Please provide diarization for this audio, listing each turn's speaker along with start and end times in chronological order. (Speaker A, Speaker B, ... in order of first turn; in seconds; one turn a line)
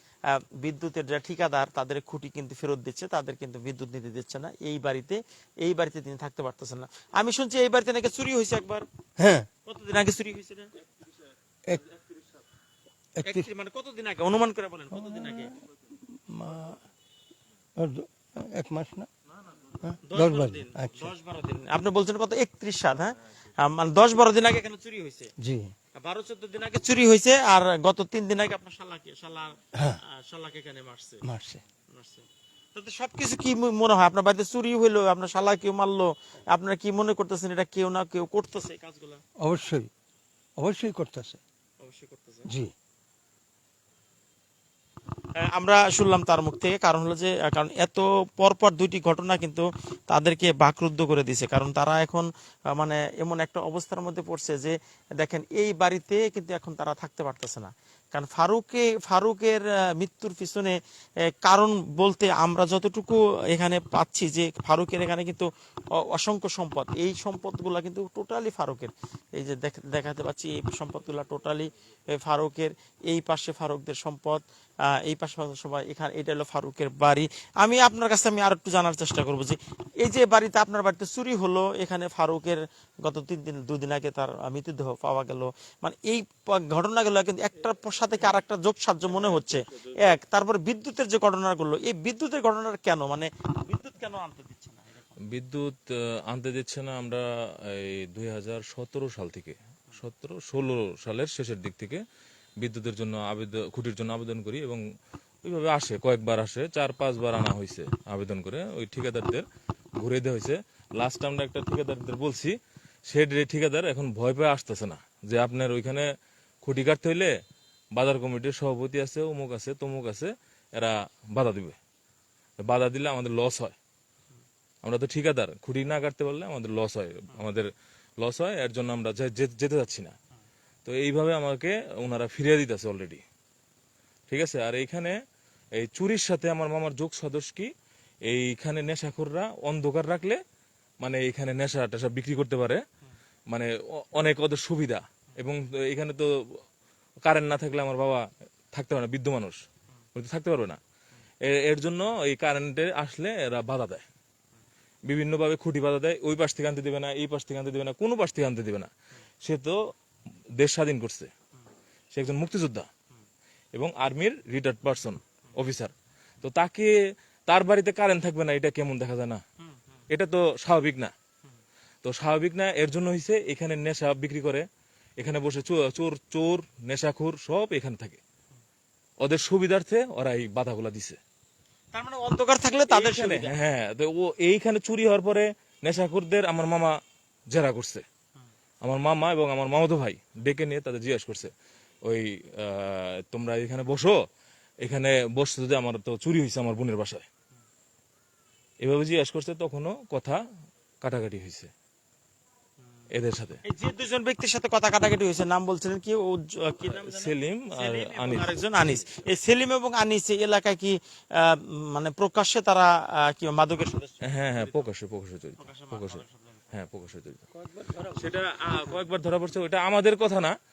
Speaker A: 0.2-8.8
Speaker B: 9.2-9.5
Speaker A: 9.7-10.8
Speaker B: 13.2-13.5
Speaker A: 13.2-15.5
Speaker B: 14.9-15.6
Speaker B: 16.3-16.8
Speaker B: 17.8-19.1
Speaker B: 19.8-21.1
Speaker A: 20.1-25.3
Speaker B: 25.4-25.7
Speaker A: 26.0-31.2
Speaker B: 31.2-31.6
Speaker A: 31.9-39.2
Speaker B: 39.4-39.9
Speaker B: 40.6-41.4
Speaker A: 41.8-42.5
Speaker B: 42.5-42.7
Speaker A: 45.4-95.2
Speaker C: 95.3-102.0
Speaker C: 102.6-104.8
Speaker C: 105.4-109.4
Speaker C: 110.0-112.6
Speaker C: 113.1-116.1
Speaker C: 116.6-117.3
Speaker C: 118.0-121.8
Speaker C: 122.6-123.7
Speaker C: 124.8-127.7
Speaker C: 128.2-130.1
Speaker C: 130.8-133.2
Speaker C: 134.3-135.2
Speaker C: 135.8-137.7
Speaker C: 138.2-140.4
Speaker C: 141.0-142.8
Speaker C: 143.5-146.6
Speaker C: 147.2-149.6
Speaker C: 150.1-150.8
Speaker C: 151.4-154.0
Speaker C: 155.1-158.9
Speaker C: 159.4-159.8
Speaker C: 160.6-161.3
Speaker C: 162.1-162.9
Speaker C: 163.7-166.9
Speaker C: 167.5-169.4
Speaker A: 169.6-170.0
Speaker C: 170.1-171.1
Speaker C: 172.0-174.7
Speaker C: 175.2-178.2
Speaker C: 179.2-181.2
Speaker A: 181.9-183.5
Speaker C: 182.9-188.0
Speaker C: 188.8-191.5
Speaker C: 192.0-194.2
Speaker C: 194.8-197.2
Speaker C: 198.8-200.4
Speaker C: 201.0-201.7
Speaker C: 203.1-203.6
Speaker A: 203.6-214.9
Speaker C: 206.9-209.0
Speaker C: 214.3-216.2
Speaker A: 215.6-216.7
Speaker C: 216.7-217.4
Speaker B: 217.7-218.2
Speaker C: 218.1-220.6